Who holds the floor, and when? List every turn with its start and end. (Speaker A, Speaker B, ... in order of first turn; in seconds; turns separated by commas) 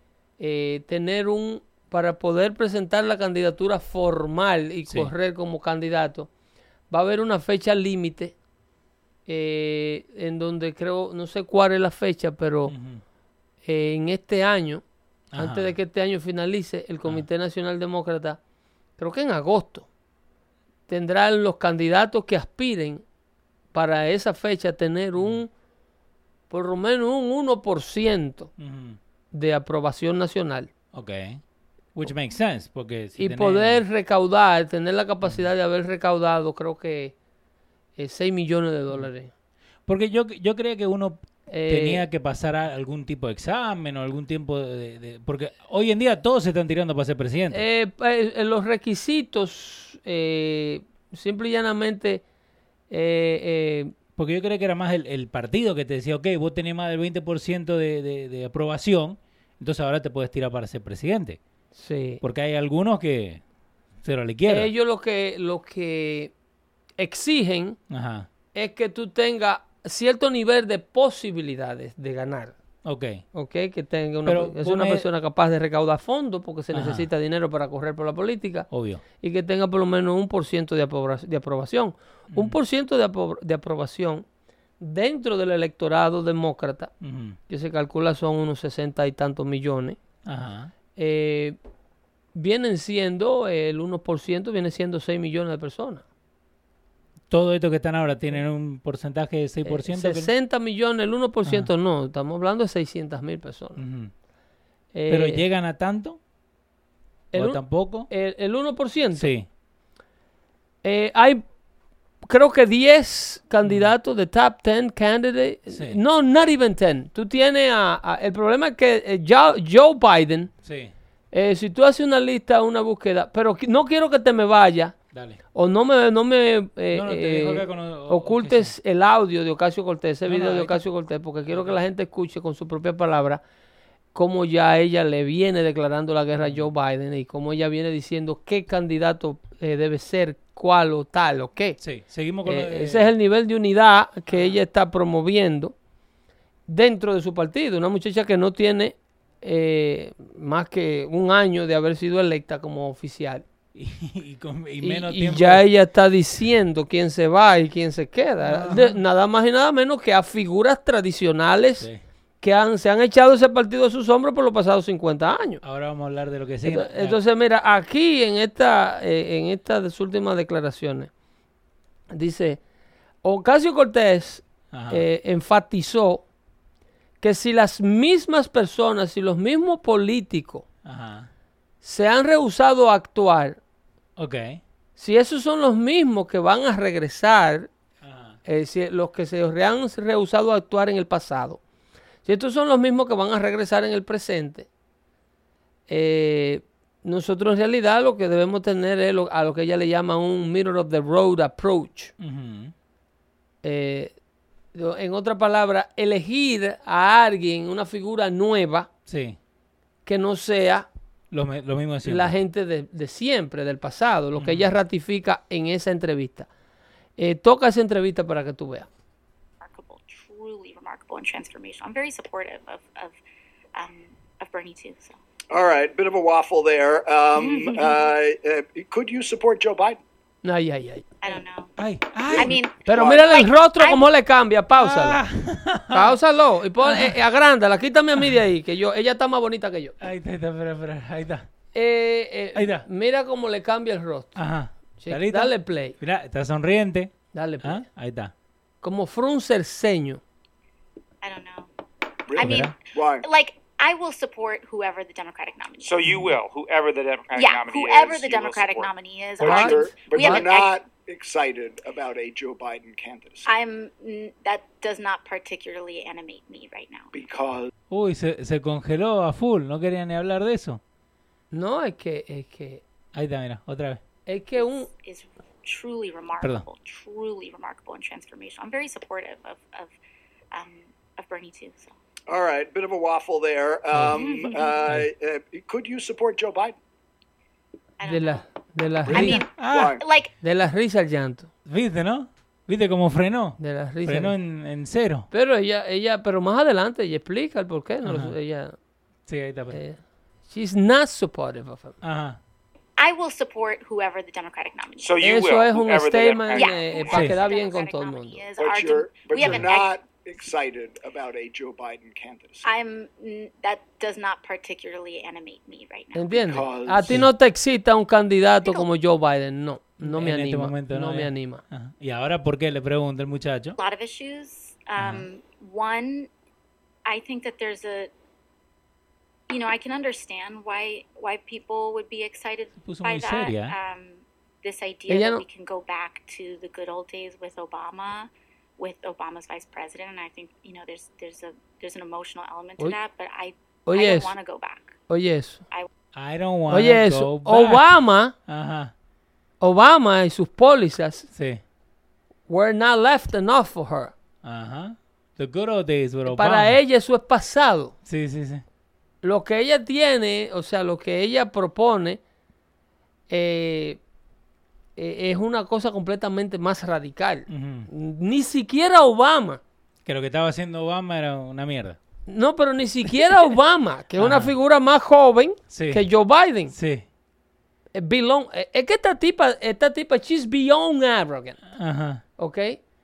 Speaker A: 0.4-6.3, Speaker A: 6.9-8.3, Speaker A: 9.2-12.7, Speaker B: 12.7-13.0, Speaker A: 13.6-14.8, Speaker B: 15.3-15.7, Speaker A: 15.3-18.4, Speaker A: 19.0-19.9, Speaker A: 20.9-23.0, Speaker A: 23.7-25.5, Speaker A: 26.5-28.5, Speaker B: 28.6-29.0, Speaker A: 29.3-30.7, Speaker B: 30.9-31.4, Speaker B: 31.9-33.8, Speaker A: 33.2-37.1, Speaker A: 38.0-39.3, Speaker B: 39.9-47.6, Speaker A: 41.5-42.0, Speaker A: 47.5-52.2, Speaker A: 52.9-53.9, Speaker B: 54.2-61.4, Speaker A: 61.7-62.2, Speaker B: 62.2-63.4, Speaker B: 64.0-64.7, Speaker A: 64.5-66.3, Speaker A: 67.0-67.8, Speaker B: 67.9-68.3, Speaker A: 68.5-72.5, Speaker B: 72.8-73.2, Speaker A: 73.3-78.7, Speaker B: 74.2-75.1, Speaker B: 76.7-77.1, Speaker B: 78.7-79.0, Speaker A: 79.2-84.2, Speaker B: 82.3-82.6, Speaker A: 84.8-86.9, Speaker B: 87.0-87.4, Speaker A: 87.5-90.0, Speaker B: 90.2-90.7, Speaker A: 91.0-91.6, Speaker A: 92.3-96.0, Speaker B: 97.3-100.3, Speaker A: 99.6-103.8, Speaker B: 103.8-104.1, Speaker A: 104.9-105.4, Speaker B: 105.1-106.2, Speaker A: 107.3-109.3, Speaker B: 107.3-108.1, Speaker B: 109.2-109.5, Speaker A: 110.8-111.4, Speaker A: 112.2-120.5, Speaker B: 113.6-113.9, Speaker B: 115.7-116.0, Speaker B: 120.6-120.9, Speaker A: 121.3-124.9, Speaker B: 125.1-125.4, Speaker A: 125.5-133.4, Speaker B: 126.9-128.7, Speaker B: 130.2-130.8, Speaker B: 131.5-131.8, Speaker A: 134.1-141.8, Speaker B: 141.8-143.1, Speaker A: 142.4-145.7, Speaker A: 146.7-153.4, Speaker B: 153.7-155.6, Speaker A: 154.8-161.9, Speaker B: 158.4-159.0, Speaker A: 162.4-165.6, Speaker B: 165.6-167.2, Speaker A: 166.6-171.1, Speaker A: 172.1-172.6, Speaker A: 173.2-176.2, Speaker B: 174.7-175.0, Speaker A: 177.2-180.6, Speaker B: 180.8-181.3, Speaker A: 181.8-183.6, Speaker B: 184.2-184.6, Speaker A: 184.9-187.7, Speaker B: 188.0-188.4, Speaker A: 188.4-191.6, Speaker A: 192.2-194.7, Speaker A: 195.9-202.1, Speaker B: 202.2-202.7, Speaker A: 203.6-204.1, Speaker A: 204.7-208.9, Speaker B: 209.1-209.4, Speaker A: 210.1-210.9, Speaker B: 211.3-212.3, Speaker A: 212.0-216.5, Speaker B: 214.4-214.7, Speaker A: 217.2-218.9, Speaker C: 219.6-223.2, Speaker C: 223.7-225.2, Speaker D: 225.5-230.0, Speaker C: 227.3-228.1, Speaker A: 230.4-231.1, Speaker C: 231.2-231.7, Speaker B: 231.8-232.6, Speaker D: 232.3-233.4, Speaker C: 232.3-234.1, Speaker A: 232.8-235.2, Speaker B: 234.8-236.2, Speaker A: 235.9-239.9, Speaker B: 236.8-237.2, Speaker B: 240.0-241.4, Speaker A: 241.7-244.4, Speaker B: 242.5-242.8, Speaker B: 244.3-248.3, Speaker A: 245.0-245.9, Speaker A: 247.3-247.8, Speaker A: 248.8-250.2, Speaker C: 251.2-251.7, Speaker D: 252.3-253.2, Speaker C: 252.3-255.9, Speaker B: 252.4-252.7, Speaker E: 255.8-258.9, Speaker B: 256.0-256.4, Speaker C: 257.3-260.8, Speaker D: 259.4-263.5, Speaker A: 259.4-260.5, Speaker C: 263.4-267.1, Speaker D: 267.1-267.7, Speaker B: 267.9-270.8, Speaker A: 271.5-272.8, Speaker B: 273.1-274.0, Speaker A: 274.3-274.9, Speaker C: 275.0-279.9, Speaker C: 280.5-281.9, Speaker D: 282.3-286.8, Speaker B: 283.9-284.2, Speaker C: 284.1-284.9, Speaker C: 288.0-288.4, Speaker A: 288.0-289.4, Speaker C: 289.1-290.3, Speaker B: 289.1-290.0, Speaker D: 289.1-290.0, Speaker A: 290.4-291.5, Speaker B: 291.6-295.3, Speaker A: 293.6-294.4, Speaker A: 295.3-298.7, Speaker B: 298.0-298.3, Speaker B: 299.3-299.8, Speaker A: 299.7-300.0, Speaker A: 300.5-301.9, Speaker B: 302.0-302.4, Speaker C: 303.0-305.2, Speaker E: 305.0-307.0, Speaker A: 305.2-308.4, Speaker C: 306.5-310.0, Speaker B: 307.1-307.4, Speaker D: 308.6-312.7, Speaker B: 309.4-309.7, Speaker C: 312.6-316.6, Speaker A: 316.1-321.6, Speaker D: 316.3-317.2, Speaker B: 320.0-323.8, Speaker C: 323.8-326.3, Speaker B: 325.0-325.3, Speaker C: 327.1-328.1, Speaker C: 329.5-345.0, Speaker B: 332.8-333.7, Speaker A: 335.1-335.4, Speaker A: 343.9-344.3, Speaker A: 345.1-345.6, Speaker B: 346.1-348.9, Speaker A: 346.7-348.3, Speaker A: 349.6-351.3, Speaker B: 351.3-351.6, Speaker A: 352.5-354.1, Speaker B: 354.4-356.8, Speaker A: 356.2-357.9, Speaker B: 358.1-358.6, Speaker A: 359.2-362.2, Speaker A: 363.3-364.0, Speaker A: 365.0-369.6, Speaker B: 367.5-367.9, Speaker B: 370.0-372.0, Speaker A: 372.3-376.7, Speaker B: 374.2-374.5, Speaker B: 375.7-376.1, Speaker B: 376.7-377.1, Speaker A: 377.9-381.6, Speaker B: 381.7-382.2, Speaker A: 382.4-382.8